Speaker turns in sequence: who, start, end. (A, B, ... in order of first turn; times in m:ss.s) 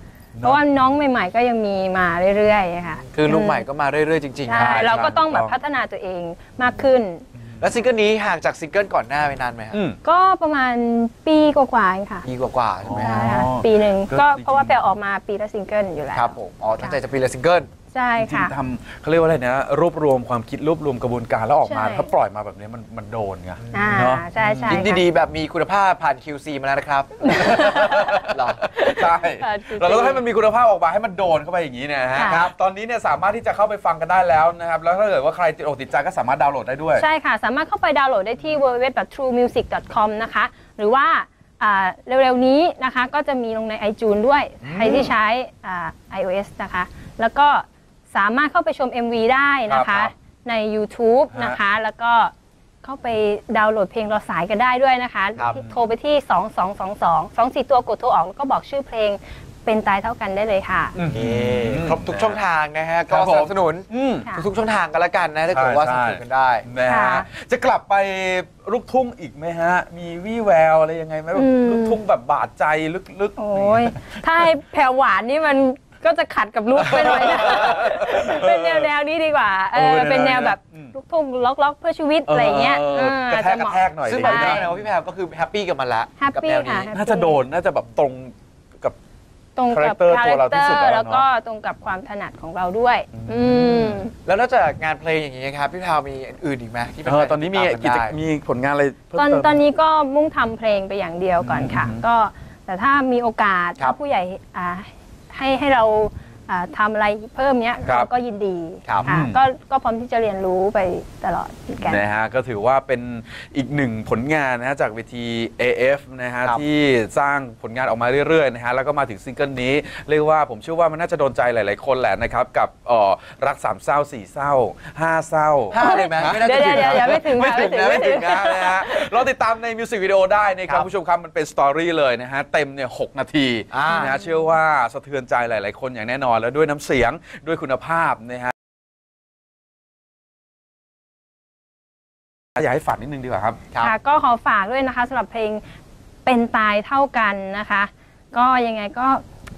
0:00.4-0:00.6 A
0:00.4-0:03.7 B
0:03.1-0:05.1 C
0:04.5-0:07.2 B
0:04.5-0:05.6 A
0:07.4-0:07.7 A
0:07.6-0:09.8 C
0:09.7-0:10.0 A
0:10.0-0:12.2 B
0:12.2-0:13.5 C
0:12.8-0:14.8 A
0:12.9-0:17.0 B
0:16.1-0:17.7 C
0:17.9-0:18.5 B
0:18.2-0:24.8 A
0:21.6-0:22.1 B
0:23.7-0:24.0 C
0:23.7-0:25.0 B
0:24.7-0:28.6 C
0:27.2-0:30.2 B
0:27.3-0:37.0 A
0:32.1-0:32.4 B
0:32.2-0:32.5 C
0:37.0-1:01.0 B
0:44.6-0:45.1 A
0:49.7-0:50.1 A
0:51.3-0:51.6 A
0:55.5-0:55.8 A
1:01.0-1:02.4 A
1:01.1-1:06.6 C
1:03.1-1:04.3 A
1:05.5-1:14.0 A
1:06.8-1:07.3 B
1:11.4-1:12.0 B
1:13.4-1:24.6 B
1:16.8-1:18.9 A
1:19.7-1:20.9 A
1:22.3-1:24.9 A
1:24.1-1:26.9 C
1:26.2-1:27.4 B
1:26.9-1:29.0 A
1:29.6-1:34.1 B
1:29.7-1:31.3 A
1:33.2-1:34.1 A
1:34.2-1:38.2 C
1:37.0-1:39.6 A
1:39.2-1:52.0 B
1:41.4-1:42.0 A
1:49.0-1:49.4 A
1:51.8-2:18.5 A
2:05.7-2:08.0 C
2:05.8-2:09.2 B
2:13.7-2:14.1 C
2:13.9-2:14.2 B
2:22.6-2:23.6 A
2:23.8-2:25.6 B
2:26.2-2:29.2 B